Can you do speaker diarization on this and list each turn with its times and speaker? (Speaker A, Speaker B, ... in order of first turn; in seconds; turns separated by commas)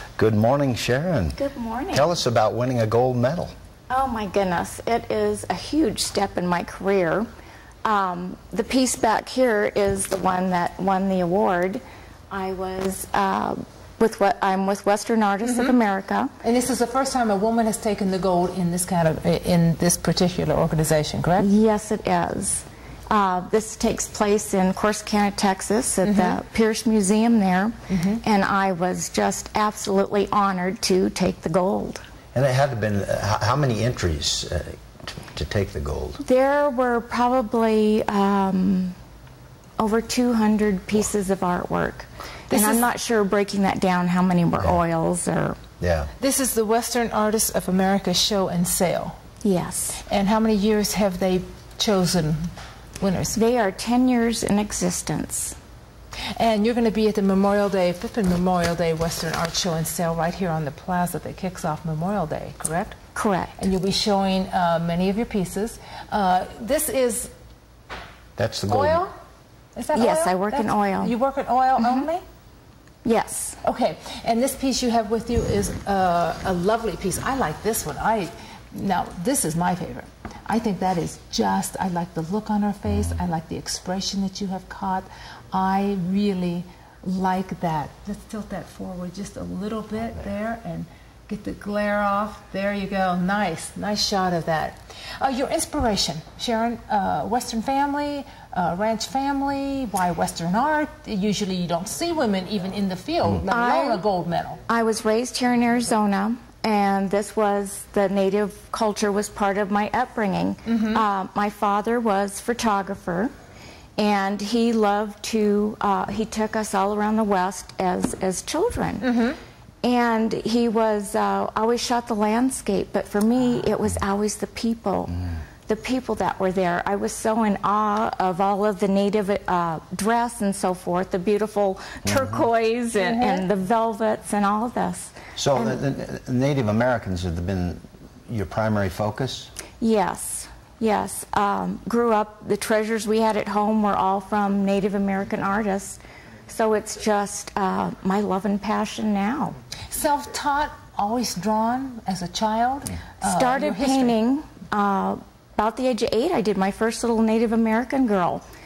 Speaker A: 0.2-1.4, Speaker B: 1.3-2.1, Speaker A: 1.9-3.5, Speaker B: 3.9-7.3, Speaker B: 7.8-16.3, Speaker C: 15.4-15.8, Speaker C: 16.4-21.5, Speaker B: 21.4-32.0, Speaker C: 26.0-26.4, Speaker C: 27.9-28.2, Speaker A: 32.3-36.2, Speaker B: 36.2-39.0, Speaker B: 39.8-45.6, Speaker C: 42.5-42.9, Speaker A: 45.8-46.1, Speaker C: 46.2-49.2, Speaker B: 49.4-50.0, Speaker C: 50.0-53.4, Speaker B: 53.3-55.5, Speaker C: 56.4-63.0, Speaker B: 63.1-63.6, Speaker C: 63.6-67.3, Speaker A: 68.4-69.0, Speaker C: 68.7-69.1, Speaker C: 69.8-72.2, Speaker B: 69.9-71.1, Speaker B: 73.0-73.6, Speaker C: 73.6-104.6, Speaker B: 103.5-104.0, Speaker B: 104.7-113.3, Speaker C: 110.7-111.0, Speaker B: 114.0-119.1, Speaker C: 119.0-119.4, Speaker B: 119.8-135.8, Speaker C: 133.0-133.4, Speaker A: 135.4-139.5, Speaker B: 139.8-149.5, Speaker C: 149.9-154.2, Speaker B: 153.2-158.4